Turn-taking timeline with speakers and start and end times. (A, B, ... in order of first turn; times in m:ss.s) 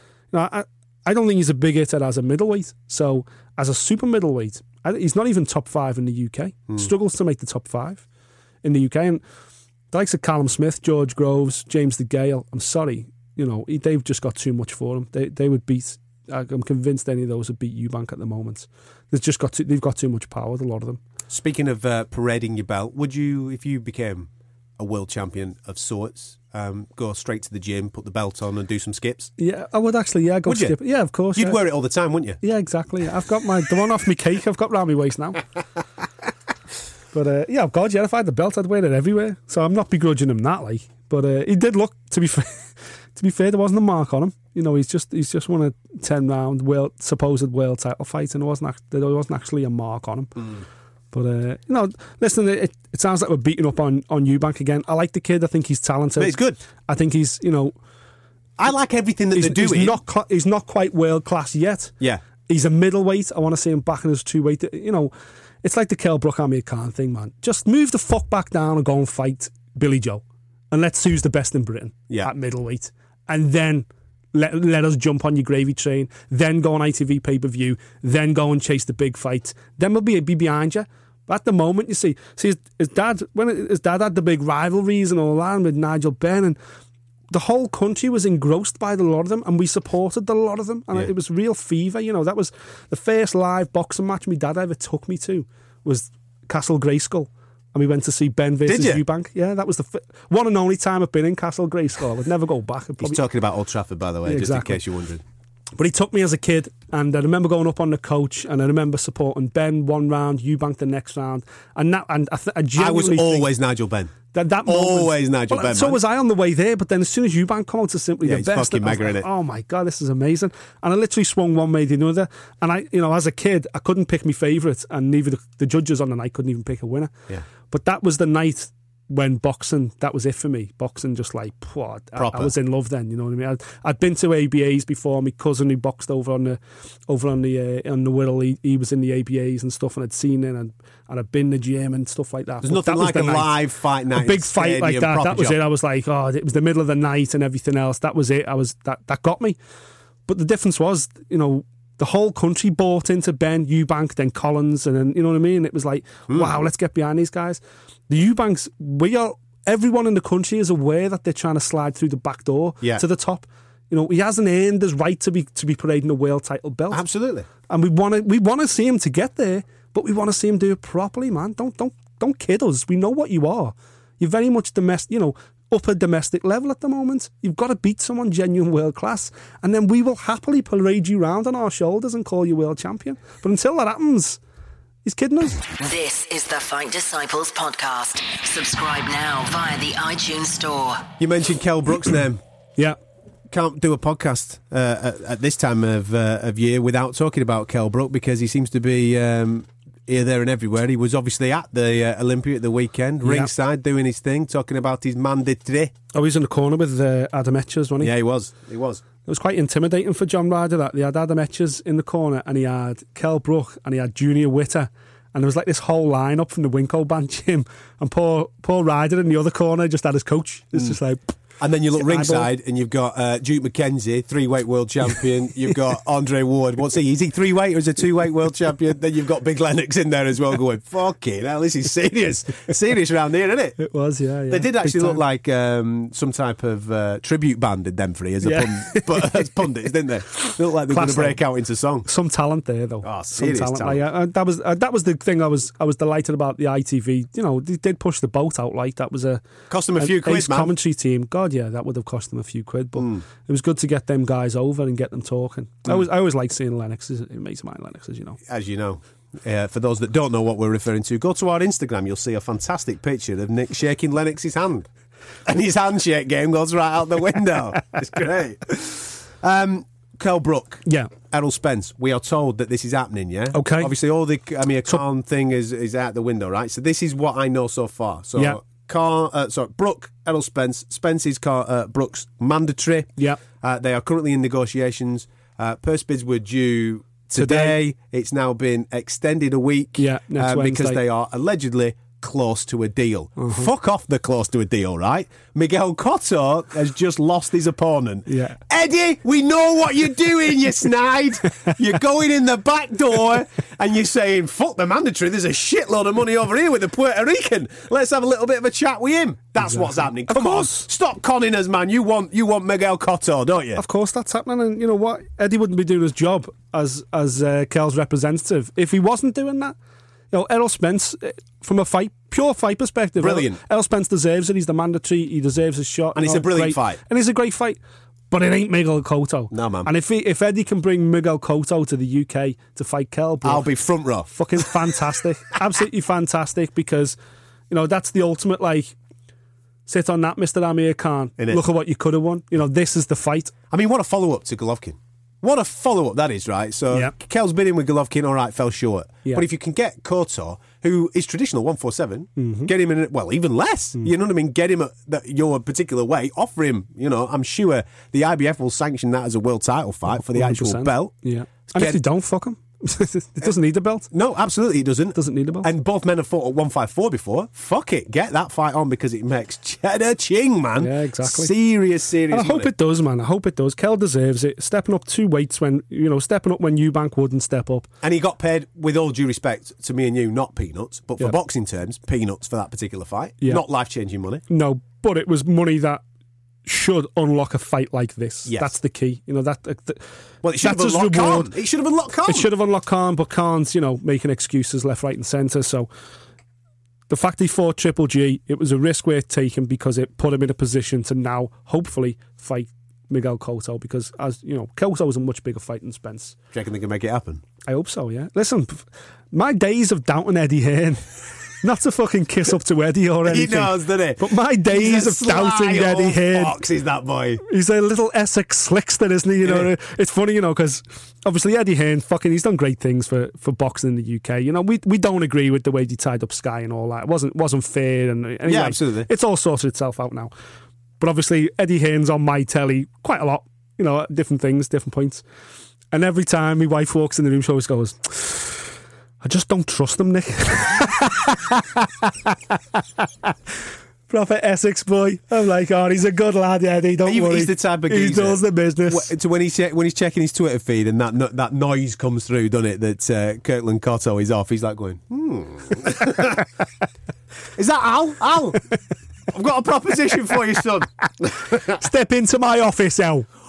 0:00.3-0:08.0 A
0:08.6-0:09.2 A
0:09.9-0:21.0 A
0:21.3-0:29.3 B
0:29.4-0:31.6 A
0:30.4-0:30.8 B
0:31.3-0:32.4 B
0:32.4-0:35.4 A
0:37.1-0:50.6 A
0:51.1-0:56.4 A
0:56.2-0:56.6 B
0:56.9-0:57.7 A
0:58.6-1:00.0 B
0:59.3-1:01.9 A
1:02.4-1:05.1 A
1:05.6-1:26.6 A
1:27.3-1:43.2 A
1:38.6-1:39.0 B
1:43.0-1:45.2 B
1:44.2-1:44.8 A
1:45.8-1:53.5 A
1:52.8-1:54.1 B
1:54.3-2:07.1 A
1:54.6-1:56.0 B
1:58.2-1:59.3 B
2:07.7-2:23.5 A
2:12.2-2:12.5 B
2:22.6-2:25.6 B
2:24.1-2:29.6 A
2:30.3-2:47.0 A
2:36.3-2:36.5 B
2:46.9-2:47.5 B
2:47.7-3:04.4 A
3:05.0-3:05.6 A
3:05.8-3:11.0 C
3:11.2-3:12.4 B
3:13.5-3:25.9 B
3:23.2-3:23.5 A
3:26.1-3:28.1 A
3:28.0-3:29.0 B
3:29.2-3:41.3 A
3:41.6-3:53.8 B
3:42.0-3:42.5 A
3:53.8-3:55.2 A
3:54.5-4:02.1 B
3:58.4-3:59.5 A
4:00.3-4:01.4 A
4:02.0-4:09.4 A
4:03.0-4:04.0 B
4:09.7-4:10.7 B
4:10.0-4:18.4 A
4:13.0-4:13.2 B
4:18.5-4:24.9 B
4:25.4-5:13.8 B
4:30.8-4:31.1 A
4:33.5-4:33.9 A
4:47.4-4:47.8 A
4:50.0-4:51.0 A
4:53.4-4:53.7 A
4:58.3-4:58.6 A
5:09.6-5:10.9 A
5:13.8-5:19.7 A
5:20.3-5:27.8 A
5:23.2-5:23.6 B
5:26.1-5:27.0 B
5:28.3-5:33.6 A
5:29.5-5:29.9 B
5:33.4-5:34.7 B
5:34.3-5:37.2 A
5:37.7-5:39.0 A
5:39.9-5:43.5 A
5:43.7-6:01.1 B
5:52.4-5:52.7 A
6:00.2-6:04.1 A
6:01.7-6:02.0 B
6:04.1-6:12.7 B
6:05.2-6:05.7 A
6:10.8-6:11.5 A
6:12.3-6:17.9 A
6:18.0-6:24.4 B
6:24.5-6:26.0 A
6:26.6-6:30.0 A
6:28.4-6:28.8 B
6:30.4-6:32.5 B
6:30.6-6:31.5 A
6:32.2-6:35.9 A
6:37.1-6:46.4 A
6:46.5-6:47.4 B
6:47.6-6:56.6 A
6:53.2-6:57.4 B
6:57.4-7:10.3 A
6:59.4-6:59.7 B
7:08.4-7:09.1 B
7:11.0-7:15.2 A
7:15.9-7:18.7 A
7:19.2-7:23.3 A
7:24.1-7:29.1 A
7:27.0-7:36.5 B
7:37.5-7:38.6 B
7:39.3-7:41.8 B
7:41.5-7:43.3 A